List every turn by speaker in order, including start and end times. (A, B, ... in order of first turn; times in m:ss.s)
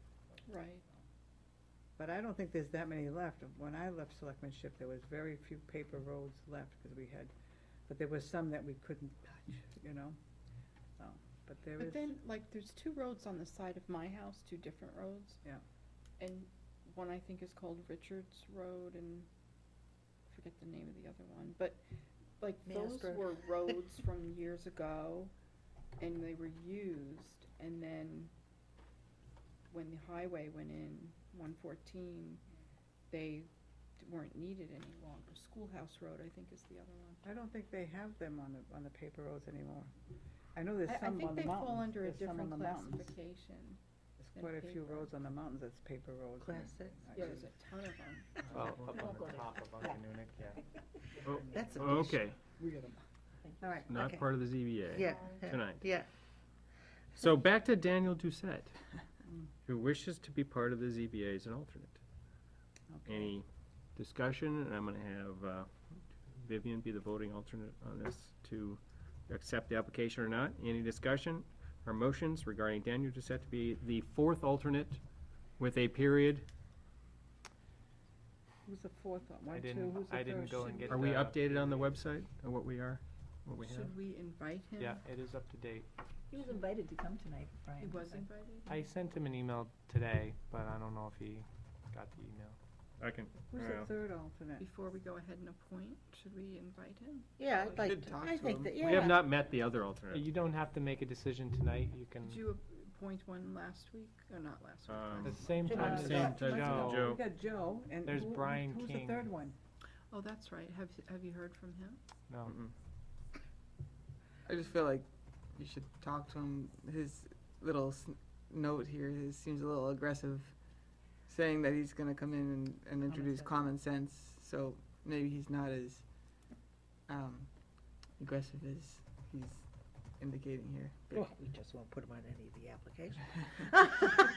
0:00.4-0:00.8 A
0:02.0-0:07.3 B
0:07.9-0:10.2 B
0:11.0-0:12.2 B
0:11.8-0:15.4 A
0:16.2-0:19.3 A
0:20.3-0:21.8 A
0:22.4-0:25.3 A
0:22.7-0:23.3 C
0:26.0-0:28.3 A
0:29.7-0:32.4 A
0:33.1-0:33.5 A
0:34.0-0:37.2 A
0:37.2-0:39.9 B
0:40.6-0:43.2 B
0:40.9-0:43.8 A
0:44.2-0:47.5 B
0:44.3-0:45.1 A
0:46.4-0:47.1 C
0:47.1-0:48.4 A
0:48.5-0:50.6 D
0:48.6-0:48.8 E
0:48.7-0:49.6 F
0:51.2-0:52.4 E
0:51.3-0:53.0 B
0:51.5-0:52.2 C
0:53.4-0:53.7 F
0:53.6-0:54.3 C
0:53.9-0:55.9 E
0:54.9-0:56.1 C
0:57.2-0:58.8 E
0:59.2-0:59.5 B
0:59.7-1:02.0 E
1:02.9-1:03.4 B
1:03.1-1:15.0 E
1:15.6-1:16.5 E
1:18.7-1:21.1 B
1:19.5-1:22.0 D
1:20.5-1:21.0 A
1:20.9-1:23.9 E
1:23.6-1:25.0 A
1:24.8-1:25.9 D
1:26.3-1:28.3 F
1:27.8-1:28.8 A
1:28.7-1:32.6 D
1:33.0-1:33.9 E
1:33.4-1:34.7 B
1:34.6-1:37.3 A
1:37.4-1:39.3 C
1:37.5-1:39.1 G
1:38.8-1:40.3 E
1:38.9-1:39.2 D
1:40.1-1:42.4 D
1:42.2-1:46.0 A
1:44.9-1:47.2 E
1:45.2-1:47.1 D
1:45.7-1:46.4 C
1:45.7-1:49.6 B
1:48.0-1:49.3 D
1:50.1-1:52.0 A
1:52.3-1:52.5 D
1:52.4-1:52.7 E
1:54.4-2:06.4 G
2:07.1-2:11.3 G
2:11.1-2:14.1 C